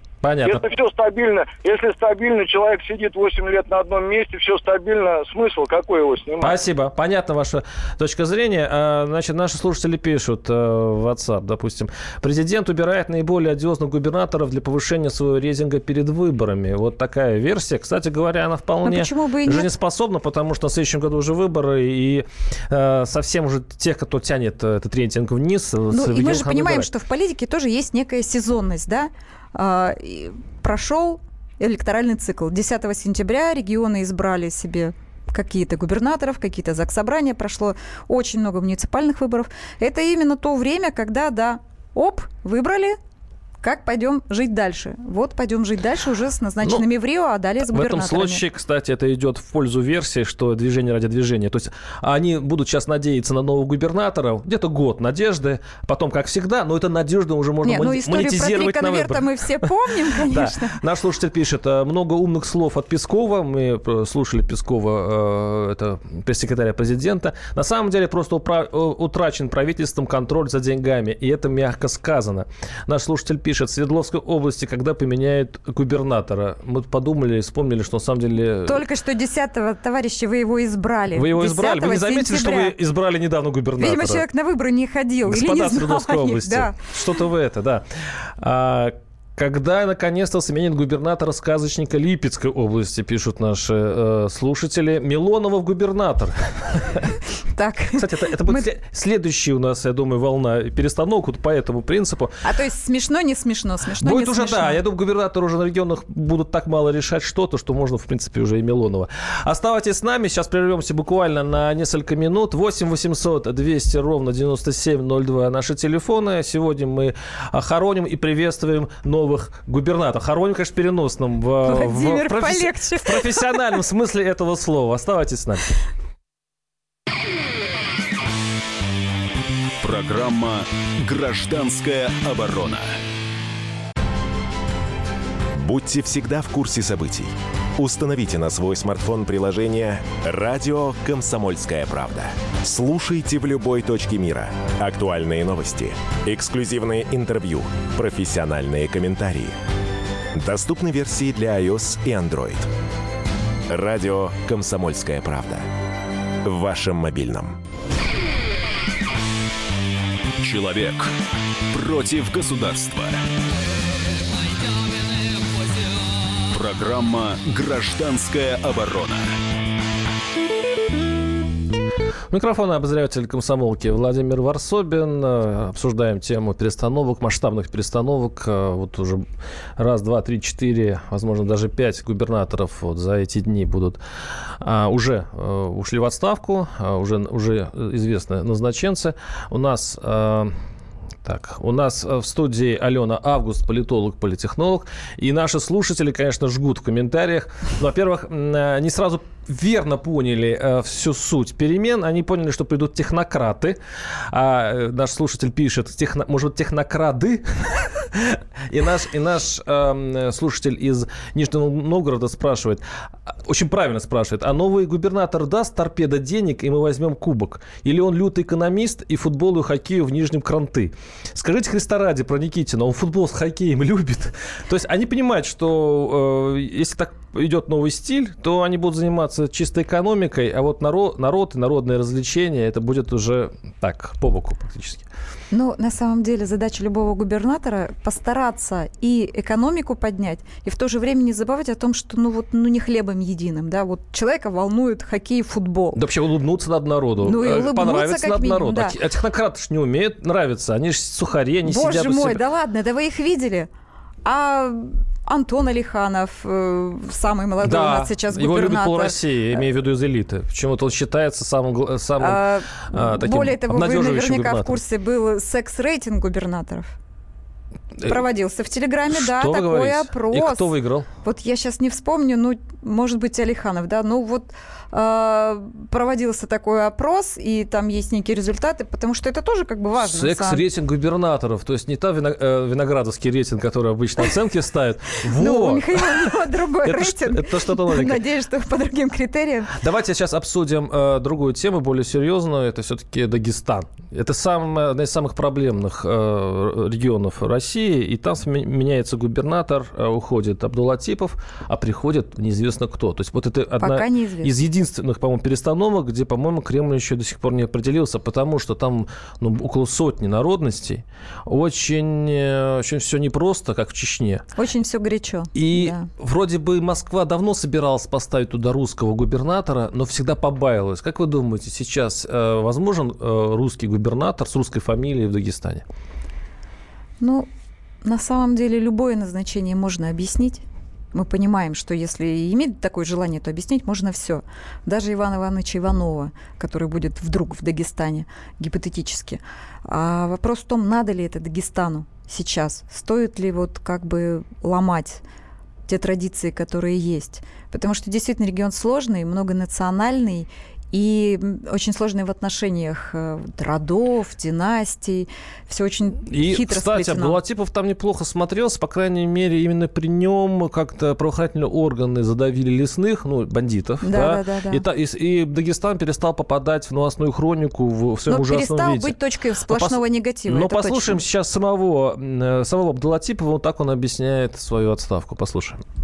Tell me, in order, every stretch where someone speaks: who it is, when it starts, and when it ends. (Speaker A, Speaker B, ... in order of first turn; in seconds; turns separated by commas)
Speaker A: 0.2-0.6, Speaker B: 0.4-6.6, Speaker A: 6.4-26.9, Speaker C: 18.8-19.7, Speaker C: 25.9-43.0, Speaker C: 43.6-48.4, Speaker A: 47.7-78.8, Speaker C: 57.6-60.8, Speaker C: 78.7-82.7, Speaker A: 81.1-84.2, Speaker C: 83.8-86.9, Speaker A: 85.2-97.1, Speaker C: 97.5-98.6, Speaker A: 98.0-102.4, Speaker C: 102.4-104.8, Speaker A: 104.0-125.7, Speaker C: 121.6-123.8, Speaker D: 129.8-133.0, Speaker E: 135.5-149.5, Speaker E: 150.3-152.7, Speaker E: 153.7-155.7, Speaker E: 156.4-157.6, Speaker D: 160.4-161.1, Speaker D: 161.7-163.2, Speaker D: 166.5-169.3, Speaker A: 172.3-179.2, Speaker A: 179.8-184.0, Speaker A: 184.6-190.5, Speaker A: 191.2-203.8, Speaker A: 204.3-212.8, Speaker A: 213.4-235.1, Speaker C: 235.5-246.0, Speaker A: 245.9-252.4, Speaker C: 247.2-249.0, Speaker C: 251.6-253.7, Speaker C: 254.2-259.6, Speaker A: 257.6-264.8, Speaker C: 262.2-266.9, Speaker C: 268.0-280.6, Speaker A: 269.1-271.1, Speaker A: 280.0-288.2, Speaker C: 285.4-289.7, Speaker A: 289.8-314.4, Speaker C: 303.8-304.5, Speaker C: 314.6-316.1, Speaker A: 315.5-325.8, Speaker C: 327.2-327.5, Speaker C: 328.0-345.2, Speaker C: 345.9-357.4, Speaker A: 356.2-369.1, Speaker C: 364.0-364.8, Speaker C: 368.3-371.2, Speaker A: 369.7-375.8